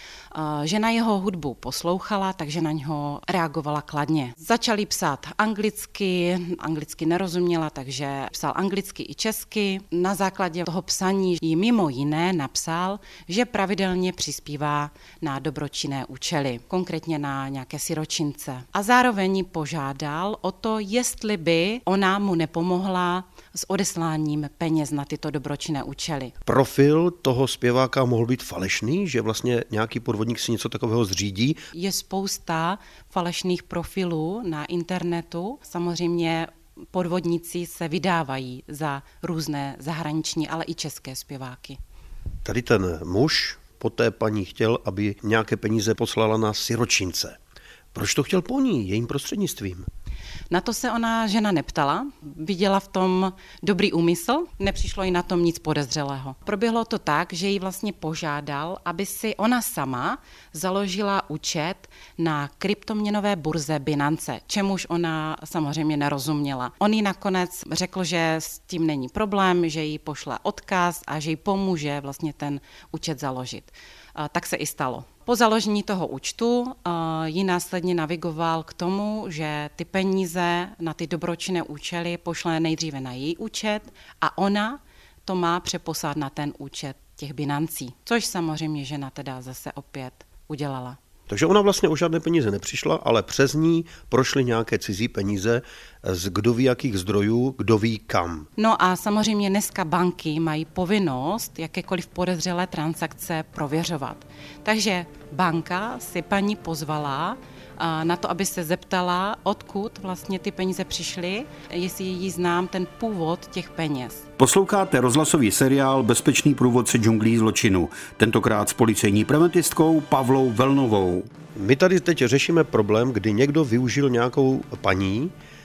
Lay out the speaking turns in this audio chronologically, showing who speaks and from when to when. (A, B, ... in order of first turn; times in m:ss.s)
0:00.3-0:26.3 A
0:26.4-0:31.6 B
0:31.7-0:41.8 A
0:42.4-0:47.4 B
0:47.9-0:49.8 B
0:50.5-1:31.0 A
1:31.3-1:38.5 B
1:38.6-1:54.2 A
1:54.4-2:01.3 C
2:01.5-2:05.3 B